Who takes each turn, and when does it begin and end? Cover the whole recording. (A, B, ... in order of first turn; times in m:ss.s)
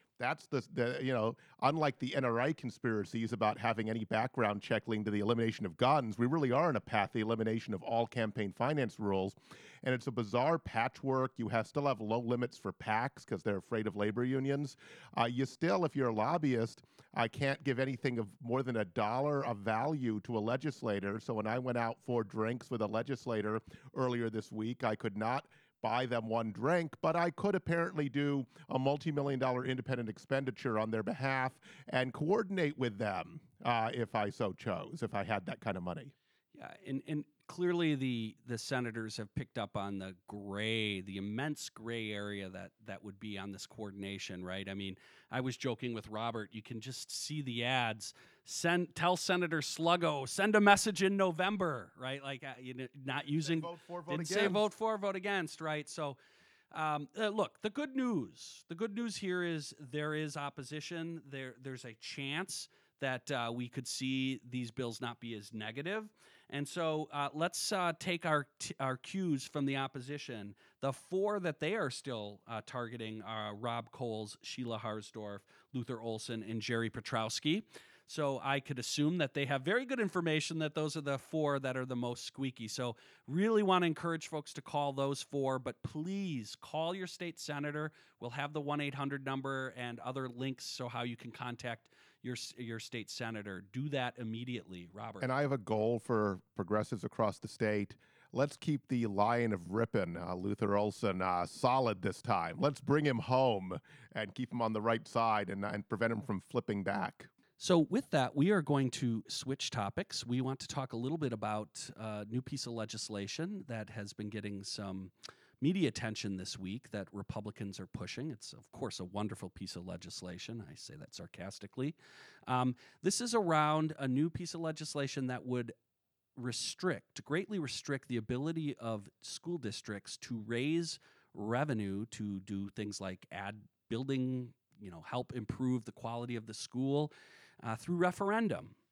0:00.2-0:36.1 A
0:36.5-0:56.2 B
0:53.4-0:54.6 A
0:56.7-1:35.3 B
1:35.2-1:47.3 A
1:47.6-2:02.0 B
2:02.5-2:05.7 B
2:06.4-2:18.8 B